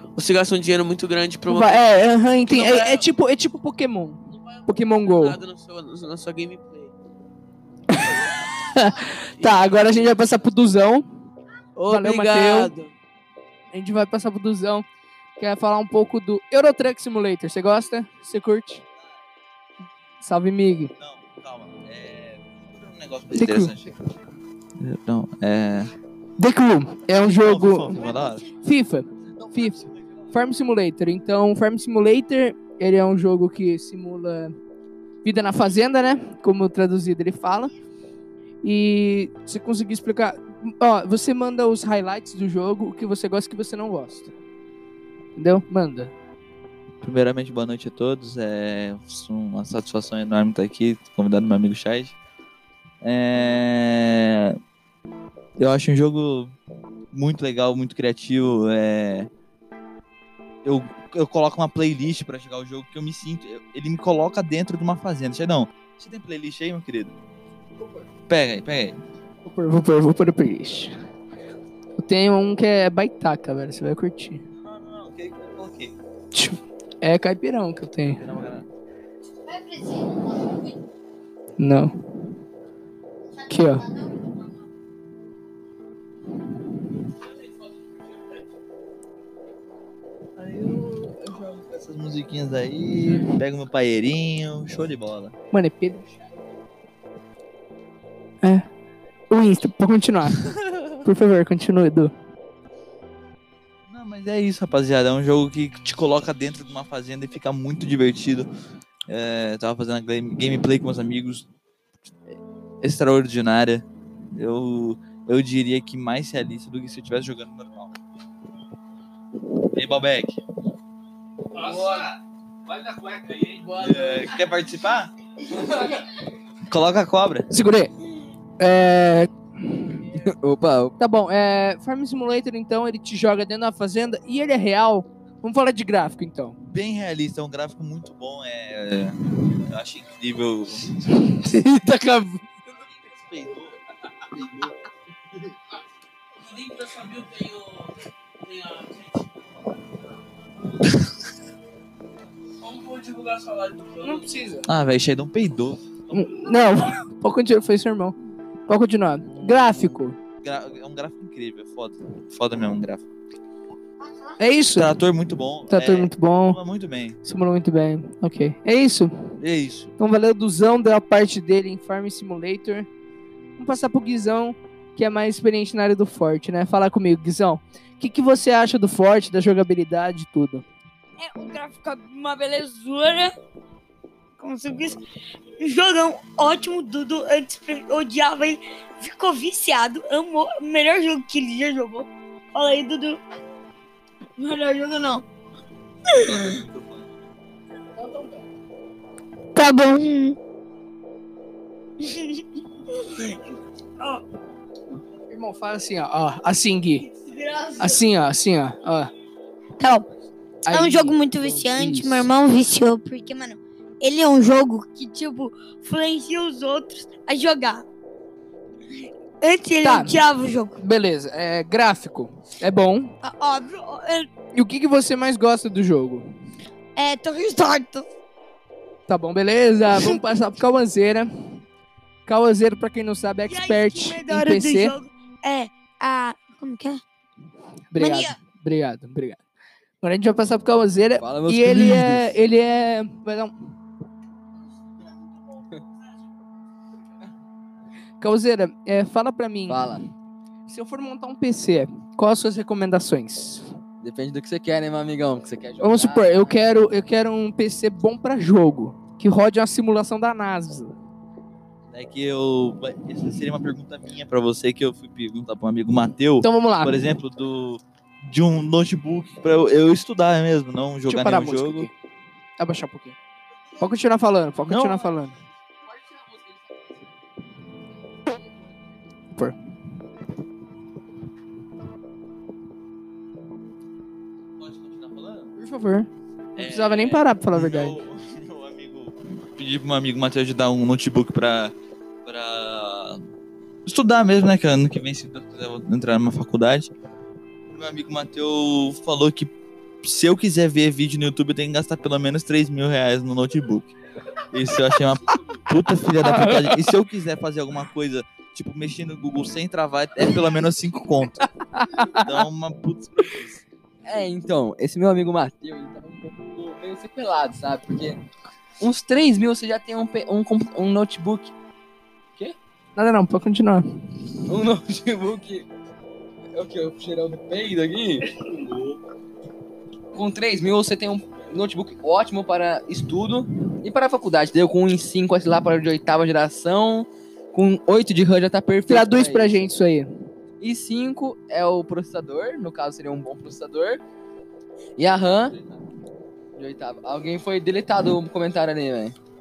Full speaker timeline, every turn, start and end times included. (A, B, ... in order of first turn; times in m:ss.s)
0:00.2-0:01.8 A
0:01.5-0:05.4 B
0:02.4-0:03.1 A
0:04.3-0:06.9 A
0:07.9-0:11.1 B
0:11.8-0:12.9 A
0:11.9-0:12.7 B
0:13.7-0:14.8 B
0:15.4-0:18.8 B
0:20.2-0:20.9 B
0:21.0-0:24.0 C
0:23.3-0:23.7 B
0:24.8-0:25.9 C
0:26.4-0:34.5 B
0:27.4-0:28.5 C
0:29.4-0:30.2 C
0:35.2-0:37.7 B
0:38.6-0:44.3 B
0:45.4-0:46.1 B
0:47.0-0:52.2 C
0:53.0-0:54.6 C
0:55.6-0:56.5 C
0:57.1-0:59.3 C
1:00.6-1:07.1 C
1:08.3-1:09.0 C
1:09.4-1:10.9 B
1:12.0-1:14.4 B
1:14.6-1:15.9 C
1:16.3-1:18.2 B
1:18.2-1:18.7 C
1:21.6-1:21.9 B
1:23.4-1:23.9 B
1:30.4-1:35.4 C
1:35.5-1:36.1 B
1:39.3-1:40.5 B
1:40.5-1:40.9 C
1:41.0-1:42.1 B
1:43.9-1:48.5 C
1:49.1-1:51.5 C
1:52.3-1:58.0 C
1:59.7-2:00.3 C
2:01.6-2:02.2 A
2:02.7-2:04.4 A
2:03.8-2:05.1 C
2:06.7-2:07.5 C
2:07.5-2:07.9 B
2:08.6-2:09.3 B
2:10.1-2:11.0 D
2:11.0-2:16.6 B
2:16.7-2:21.0 C
2:21.1-2:22.5 B
2:23.1-2:23.8 C
2:24.3-2:24.8 C
2:26.4-2:29.4 A
2:32.6-2:34.3 A
2:34.0-2:34.7 B
2:34.7-2:35.9 C
2:36.1-2:38.2 B
2:38.7-2:40.2 B
2:39.4-2:43.0 C
2:44.4-2:45.0 B
2:44.8-2:47.2 C
2:45.7-2:46.6 B
2:47.2-2:49.1 B
2:49.4-2:49.9 C
2:50.0-2:52.9 B
2:53.6-3:00.6 B
3:01.2-3:03.3 E
3:04.4-3:05.0 E
3:05.6-3:13.2 E
3:14.4-3:15.2 E
3:16.1-3:16.6 E
3:16.2-3:17.1 C
3:19.6-3:20.4 E
3:22.0-3:22.4 E
3:23.0-3:23.4 E
3:25.3-3:27.1 B
3:27.2-3:28.0 E
3:27.8-3:29.1 B
3:29.8-3:30.1 E
3:30.7-3:32.3 B
3:30.7-3:37.8 E
3:39.4-3:40.8 E
3:39.8-3:40.2 B
3:40.8-3:43.1 B
3:43.2-3:44.3 E
3:44.5-3:46.2 B
3:47.0-3:48.1 E
3:49.1-3:51.3 B
3:49.9-3:50.2 E
3:52.3-3:55.0 B
3:53.5-3:57.0 E
3:57.9-3:59.4 B
3:58.0-3:58.4 E
4:00.0-4:03.5 B
4:01.2-4:02.4 D
4:08.2-4:10.0 B
4:09.7-4:10.0 D
4:10.7-4:13.7 B
4:14.0-4:16.7 D
4:15.8-4:20.9 B
4:21.9-4:31.9 C
4:26.4-4:27.0 B
4:31.1-4:31.9 B
4:32.6-4:33.2 B
4:33.8-4:35.4 B
4:34.7-4:35.1 C
4:35.8-4:37.1 D
4:38.0-4:38.8 D
4:44.6-4:45.5 C
4:45.6-4:48.0 B
4:46.6-4:51.7 C
4:52.2-4:53.2 C
4:53.9-4:56.9 C
4:57.7-5:03.9 C
5:04.5-5:11.5 C
5:06.2-5:06.9 B
5:11.7-5:12.4 B
5:12.0-5:13.6 C
5:14.0-5:18.2 D
5:18.8-5:21.5 D
5:23.0-5:23.8 B
5:24.5-5:25.7 D
5:26.5-5:28.3 D
5:30.1-5:39.7 D
5:38.9-5:40.1 B
5:40.6-5:44.0 D
5:45.0-5:45.6 D
5:46.6-5:49.2 D